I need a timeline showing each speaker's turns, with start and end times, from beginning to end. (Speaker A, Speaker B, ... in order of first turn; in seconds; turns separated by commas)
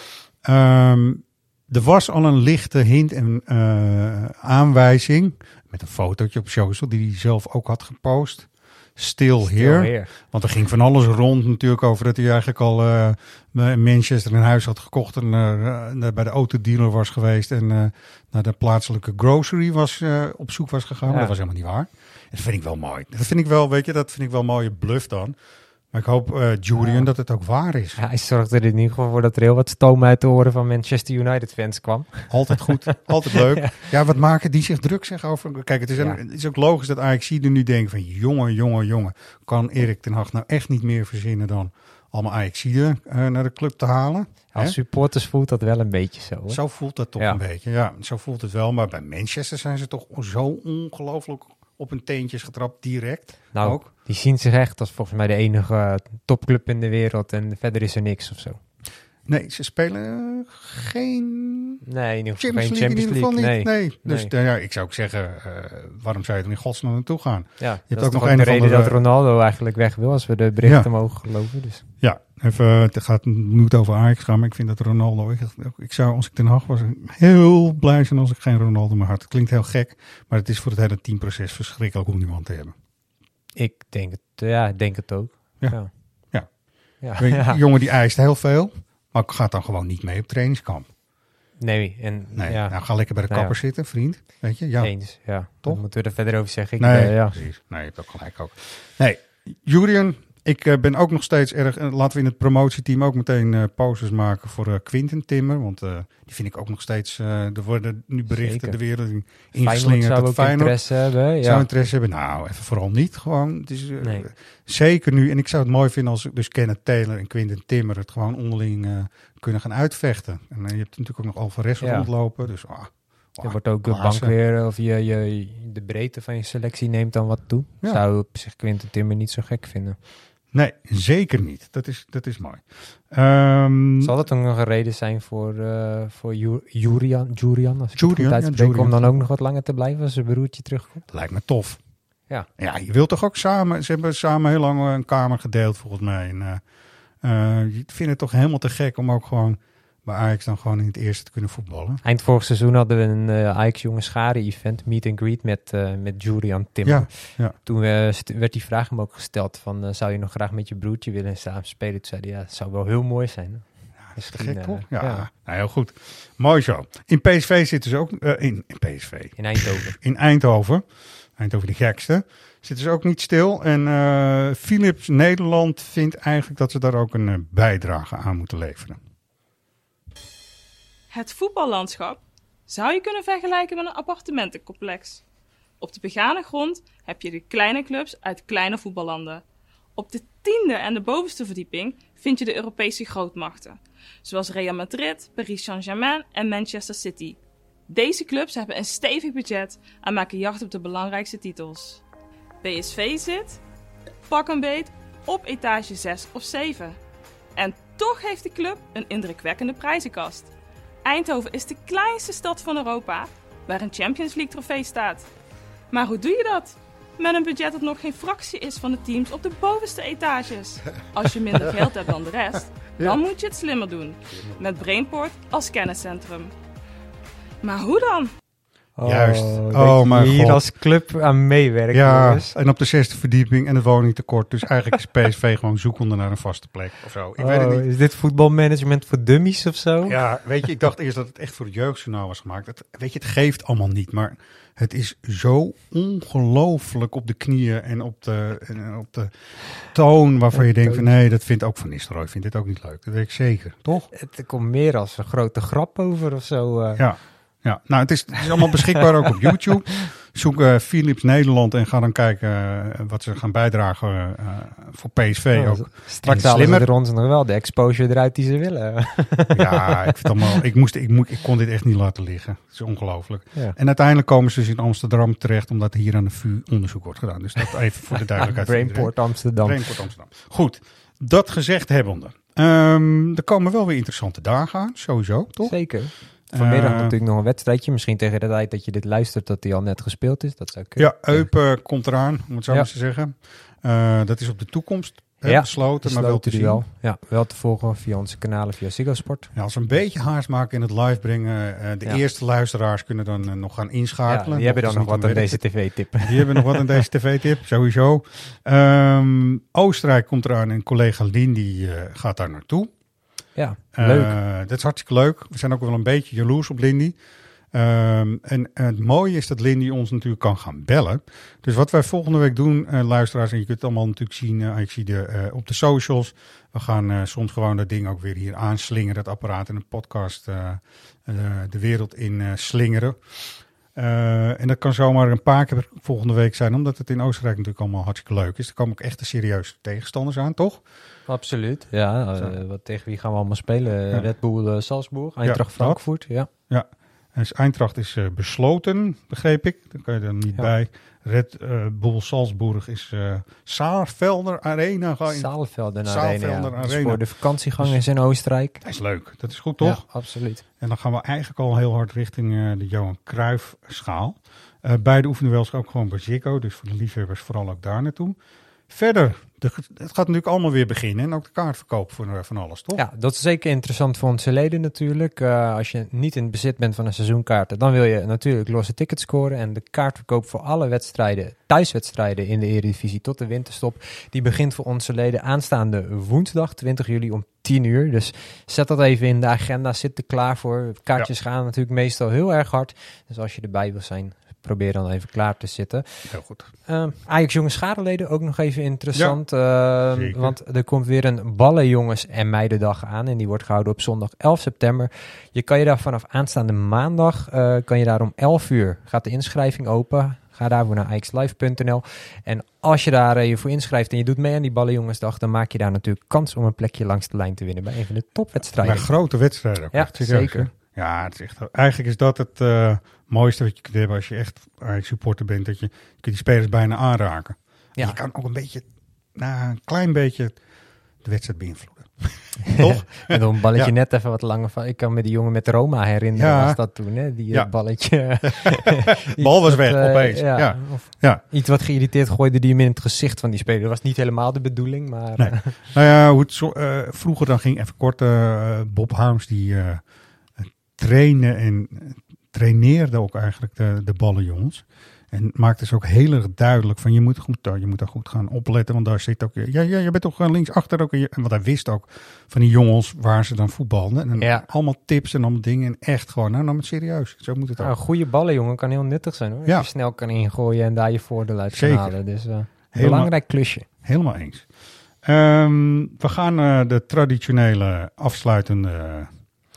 Speaker A: 0.4-25.4, Speaker B: 9.4-10.1, Speaker B: 21.1-21.3, Speaker A: 25.9-28.0, Speaker B: 26.8-27.1, Speaker B: 28.0-33.7, Speaker A: 32.3-44.8, Speaker B: 44.5-46.6, Speaker A: 46.5-53.9, Speaker B: 53.5-58.6, Speaker A: 59.3-61.8, Speaker B: 61.8-64.3, Speaker A: 62.4-69.0, Speaker B: 67.6-71.8, Speaker A: 70.6-70.9, Speaker A: 72.0-82.8, Speaker B: 83.6-85.9, Speaker B: 87.0-87.6, Speaker A: 87.1-90.9, Speaker B: 91.6-93.6, Speaker A: 92.3-94.9, Speaker B: 94.8-97.4, Speaker A: 96.8-110.8, Speaker B: 108.3-108.8, Speaker B: 109.6-111.7, Speaker A: 111.4-124.3, Speaker B: 114.0-114.3, Speaker B: 121.8-122.1, Speaker B: 123.4-130.0, Speaker A: 130.5-134.2, Speaker B: 134.0-141.0, Speaker A: 137.9-139.2, Speaker A: 141.1-141.8, Speaker A: 142.6-146.6, Speaker A: 147.2-152.0, Speaker B: 152.0-165.3, Speaker A: 156.8-157.6, Speaker A: 164.1-170.8, Speaker B: 169.4-169.9, Speaker A: 171.4-179.0, Speaker C: 181.1-185.2, Speaker C: 185.8-189.4, Speaker C: 189.9-197.4, Speaker C: 197.9-202.0, Speaker C: 202.6-203.6, Speaker C: 204.3-207.0, Speaker C: 207.6-210.5, Speaker C: 211.1-215.3, Speaker C: 215.9-226.5, Speaker A: 224.3-224.7, Speaker C: 227.6-228.3, Speaker B: 229.0-232.5, Speaker A: 229.0-230.6, Speaker A: 231.9-237.9, Speaker B: 237.4-240.2, Speaker A: 240.1-254.1, Speaker B: 250.6-251.1, Speaker B: 254.1-257.0, Speaker A: 256.9-266.9, Speaker B: 265.5-270.6, Speaker A: 269.5-285.8, Speaker B: 278.3-279.8, Speaker B: 285.6-291.5, Speaker A: 286.5-287.1, Speaker A: 291.0-296.9, Speaker B: 295.4-299.5, Speaker A: 299.5-305.6, Speaker B: 304.3-307.0, Speaker A: 306.2-312.9, Speaker B: 313.6-314.4, Speaker A: 313.9-317.1, Speaker A: 317.7-340.8, Speaker B: 341.3-346.5, Speaker A: 345.4-346.0, Speaker A: 346.7-355.5, Speaker B: 355.3-358.8, Speaker A: 356.0-357.2, Speaker A: 358.8-360.0, Speaker B: 359.8-360.6, Speaker A: 360.8-368.4, Speaker A: 368.9-373.0, Speaker B: 372.9-396.0, Speaker A: 396.3-396.7, Speaker B: 396.9-419.1, Speaker A: 400.1-400.6, Speaker A: 418.6-430.6, Speaker B: 419.9-420.7, Speaker A: 431.2-433.9, Speaker B: 432.7-445.8, Speaker A: 436.4-436.8, Speaker A: 437.5-441.4, Speaker A: 445.4-450.0, Speaker A: 450.6-467.9, Speaker B: 464.4-464.6, Speaker B: 467.8-473.9, Speaker A: 471.7-472.1, Speaker A: 472.9-473.3, Speaker A: 473.9-474.6, Speaker A: 475.2-479.3